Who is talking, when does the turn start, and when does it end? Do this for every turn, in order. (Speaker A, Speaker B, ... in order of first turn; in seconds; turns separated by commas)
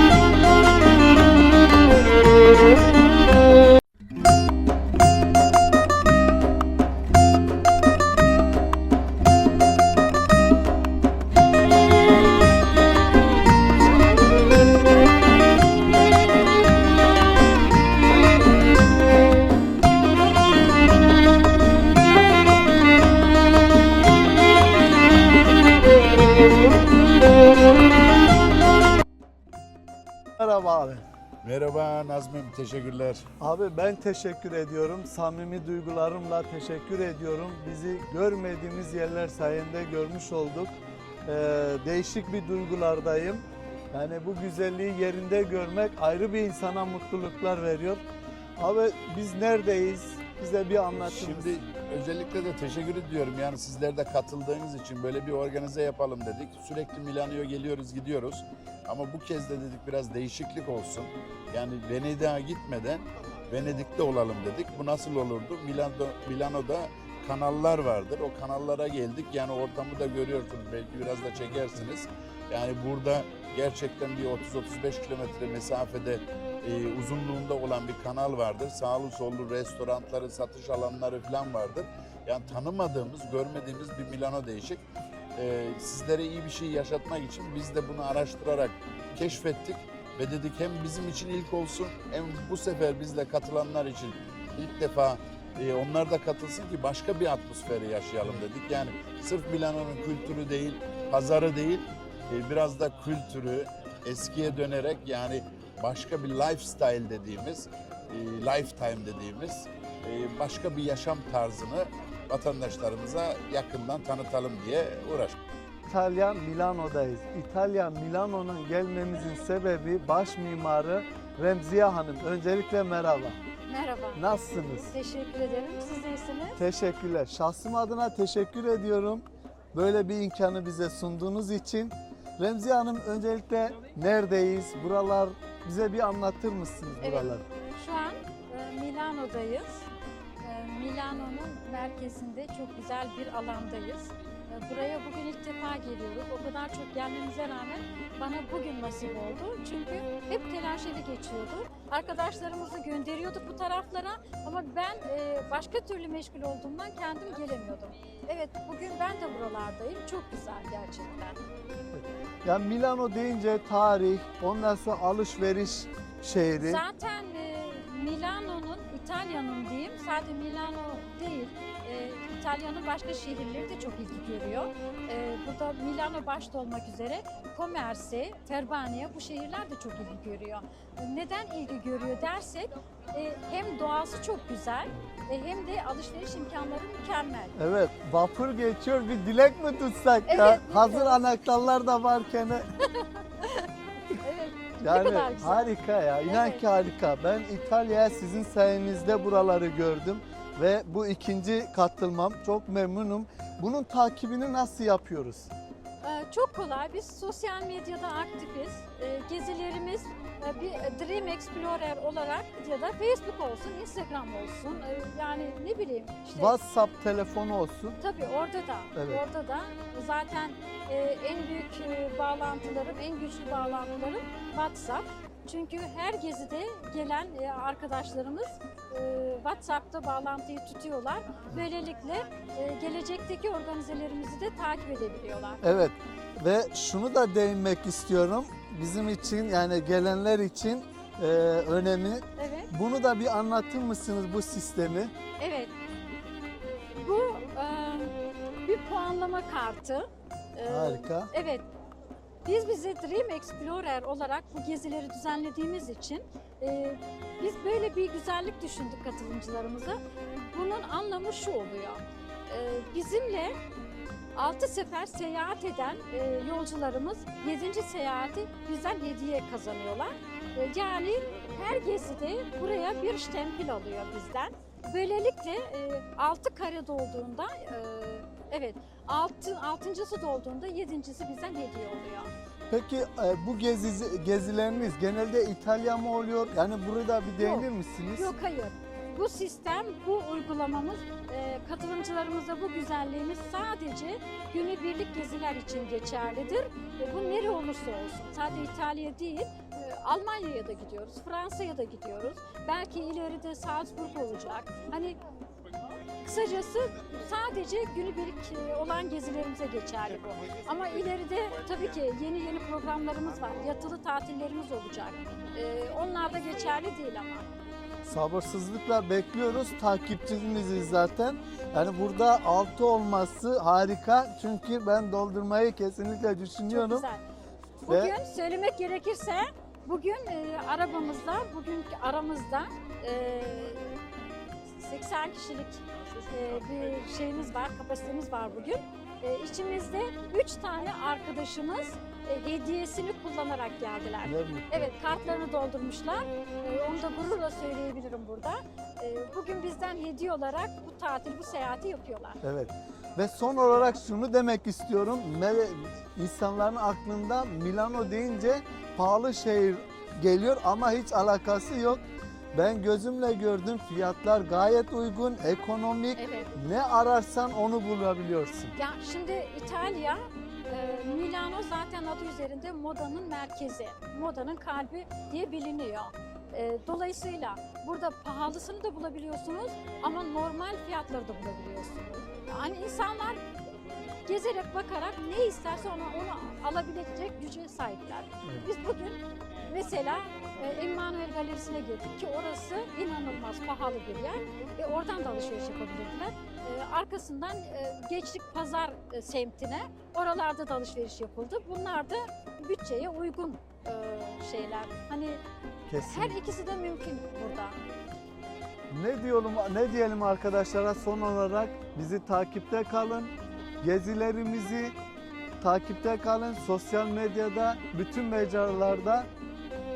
Speaker A: 30.4-31.0, Speaker B: 31.4-33.3, Speaker A: 33.4-40.7, Speaker A: 41.2-48.0, Speaker A: 48.6-51.5, Speaker B: 51.0-84.8, Speaker B: 85.4-115.3, Speaker A: 115.9-123.4, Speaker C: 123.7-124.2, Speaker A: 124.2-124.9, Speaker C: 124.9-126.6, Speaker A: 126.6-137.4, Speaker C: 137.0-139.9, Speaker C: 140.4-161.4, Speaker A: 161.9-166.8, Speaker C: 166.6-187.6, Speaker A: 187.6-192.7, Speaker C: 190.3-191.2, Speaker C: 192.8-195.7, Speaker A: 194.8-205.5, Speaker C: 196.2-196.6, Speaker C: 206.0-216.6, Speaker A: 216.3-218.0, Speaker C: 218.0-235.6, Speaker A: 218.9-219.2, Speaker A: 235.6-245.1, Speaker C: 242.4-242.7, Speaker C: 245.4-245.7, Speaker C: 246.9-251.6, Speaker A: 250.7-251.3, Speaker C: 252.4-263.5, Speaker C: 264.3-282.3, Speaker A: 282.7-288.3, Speaker C: 287.4-305.2, Speaker C: 306.2-317.5, Speaker A: 318.0-327.1, Speaker C: 326.7-327.2, Speaker C: 327.8-334.0, Speaker A: 327.9-328.1, Speaker C: 334.7-352.4, Speaker A: 344.2-344.9, Speaker A: 352.4-362.0, Speaker A: 362.5-368.7, Speaker C: 366.2-366.5, Speaker C: 368.8-383.4, Speaker C: 384.2-405.4, Speaker A: 405.9-406.4, Speaker C: 406.0-407.8, Speaker A: 408.9-414.9, Speaker A: 415.6-419.3